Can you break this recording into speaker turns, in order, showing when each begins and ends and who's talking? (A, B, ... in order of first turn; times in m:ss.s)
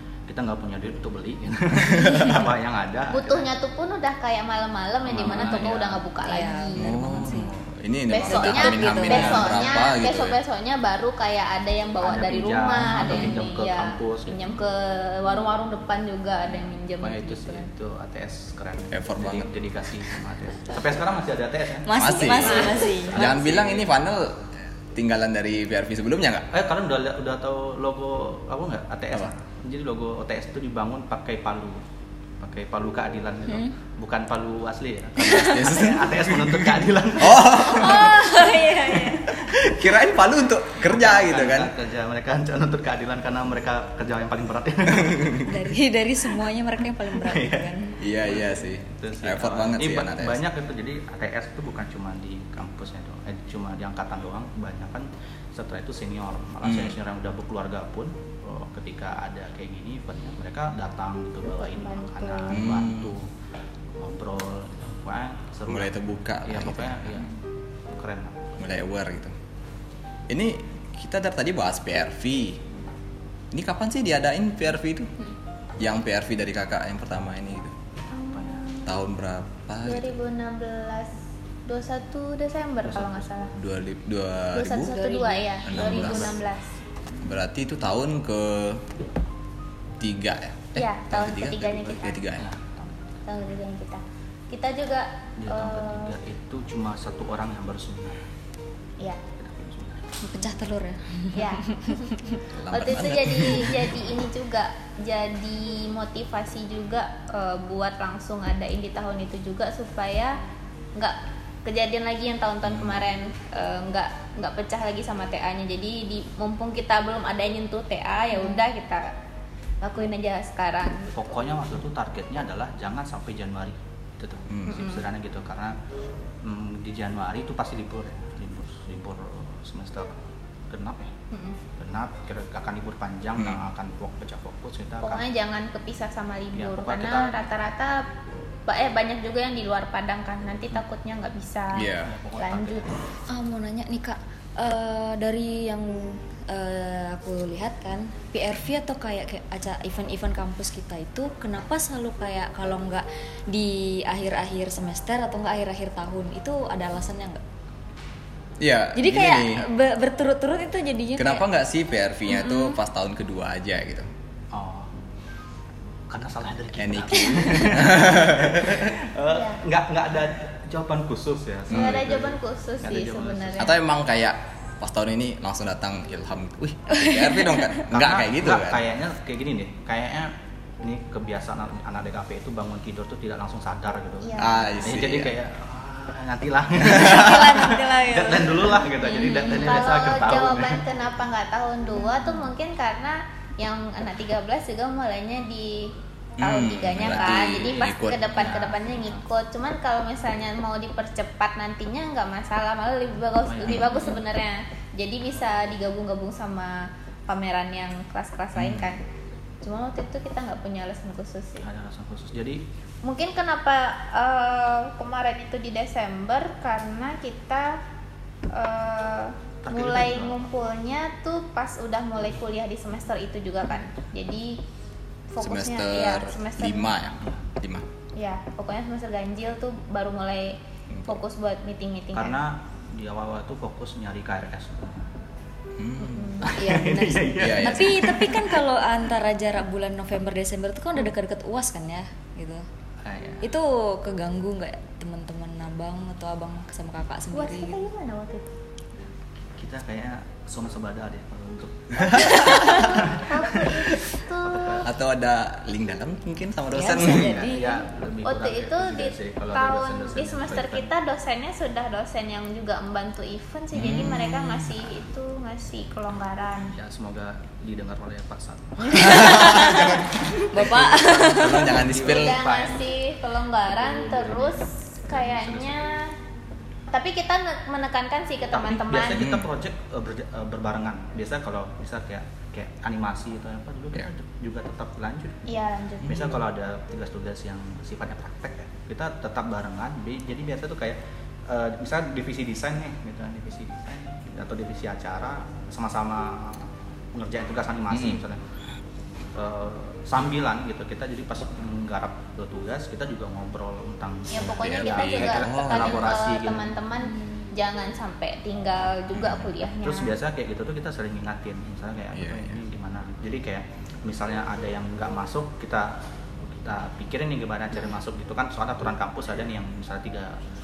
0:00.3-0:03.5 A
0:03.1-0:07.3 B
0:05.0-0:06.1 A
0:06.2-0:07.5 C
0:06.8-0:10.4 D
0:08.1-0:17.7 B
0:08.3-0:09.6 C
0:12.0-0:14.5 A
0:17.0-0:23.9 A
0:18.9-0:19.5 D
0:21.8-0:23.4 C
0:21.9-0:26.5 D
0:26.5-0:31.8 A
0:32.4-0:38.4 A
0:35.2-0:35.7 C
0:35.4-0:38.4 D
0:37.5-0:39.4 C
0:39.2-0:41.7 D
0:40.8-0:45.5 A
0:44.9-0:45.4 D
0:45.4-0:48.0 C
0:47.2-0:47.7 A
0:48.0-0:50.4 D
0:48.3-1:03.3 A
0:56.6-0:57.0 D
1:01.5-1:02.6 B
1:02.5-1:03.2 D
1:04.0-1:05.9 A
1:05.7-1:07.3 D
1:06.4-1:07.3 A
1:07.9-1:08.6 A
1:08.6-1:09.3 D
1:10.3-1:12.6 D
1:13.5-1:15.1 D
1:15.8-1:17.7 D
1:18.1-1:19.0 B
1:18.3-1:18.7 A
1:18.8-1:20.1 D
1:19.8-1:21.1 B
1:21.7-1:23.5 B
1:22.8-1:23.3 A
1:23.6-1:25.0 D
1:24.5-1:26.7 B
1:24.8-1:26.2 C
1:25.6-1:26.4 D
1:27.2-1:28.8 D
1:30.0-1:32.5 D
1:30.8-1:32.2 B
1:32.4-1:32.9 A
1:33.3-1:36.1 B
1:35.4-1:38.3 A
1:39.4-1:40.1 A
1:40.2-1:42.4 C
1:41.3-1:42.1 B
1:42.5-1:44.0 D
1:42.7-1:50.4 B
1:51.0-1:59.1 B
1:52.7-1:53.0 D
1:59.8-2:01.2 B
2:01.1-2:05.8 A
2:04.5-2:04.9 D
2:04.7-2:05.0 B
2:06.4-2:10.2 A
2:10.7-2:11.1 A
2:11.3-2:11.6 B
2:11.8-2:15.2 A
2:13.4-2:13.7 D
2:15.0-2:18.1 B
2:16.6-2:17.4 A
2:18.7-2:22.9 B
2:21.7-2:22.1 D
2:22.0-2:23.0 A
2:23.3-2:37.4 C
2:38.6-2:39.7 D
2:39.0-2:41.4 C
2:41.2-2:44.1 D
2:42.3-2:42.8 C
2:44.5-2:44.9 A
2:46.1-2:53.8 A
2:46.8-2:49.0 D
2:49.3-2:49.6 B
2:51.7-2:52.0 D
2:51.7-2:53.8 B
2:53.6-2:58.8 D
2:56.9-2:57.8 C
2:57.9-3:10.8 A
3:04.2-3:04.9 B
3:04.4-3:05.3 D
3:06.9-3:09.8 C
3:09.0-3:29.0 B
3:16.4-3:18.4 D
3:17.8-3:19.2 A
3:23.4-3:24.1 A
3:23.7-3:24.0 D
3:28.6-3:28.9 D
3:29.6-3:31.7 B
3:31.6-3:32.6 A
3:33.0-3:37.8 B
3:38.5-3:44.6 B
3:39.6-3:40.4 A
3:45.3-3:46.9 B
3:45.4-3:47.9 D
3:48.2-3:52.4 B
3:50.9-3:51.2 D
3:52.1-3:55.1 A
3:55.8-3:56.5 D
3:56.0-3:56.5 B
3:56.4-3:58.6 A
3:56.5-4:02.6 C
3:57.4-3:58.1 D
4:03.0-4:03.5 A
4:03.4-4:07.8 C
4:07.3-4:08.5 B
4:09.6-4:14.9 A
4:12.3-4:14.9 B
4:12.3-4:12.6 D
4:14.8-4:17.6 D
4:16.7-4:17.8 C
4:17.1-4:20.9 A
4:18.2-4:26.8 B
4:23.7-4:24.3 D
4:26.7-4:32.8 A
4:28.8-4:31.8 C
4:28.9-4:32.4 D
4:32.1-4:36.2 B
4:33.7-4:35.9 A
4:36.9-4:39.3 B
4:38.5-4:58.4 A
4:39.2-4:39.5 D
4:45.5-4:46.4 B
4:57.9-4:58.2 D
4:59.4-5:06.7 A
5:04.3-5:10.2 B
5:04.4-5:06.2 D
5:07.0-5:07.5 C
5:09.2-5:09.5 D
5:09.8-5:20.4 A
5:12.1-5:12.6 D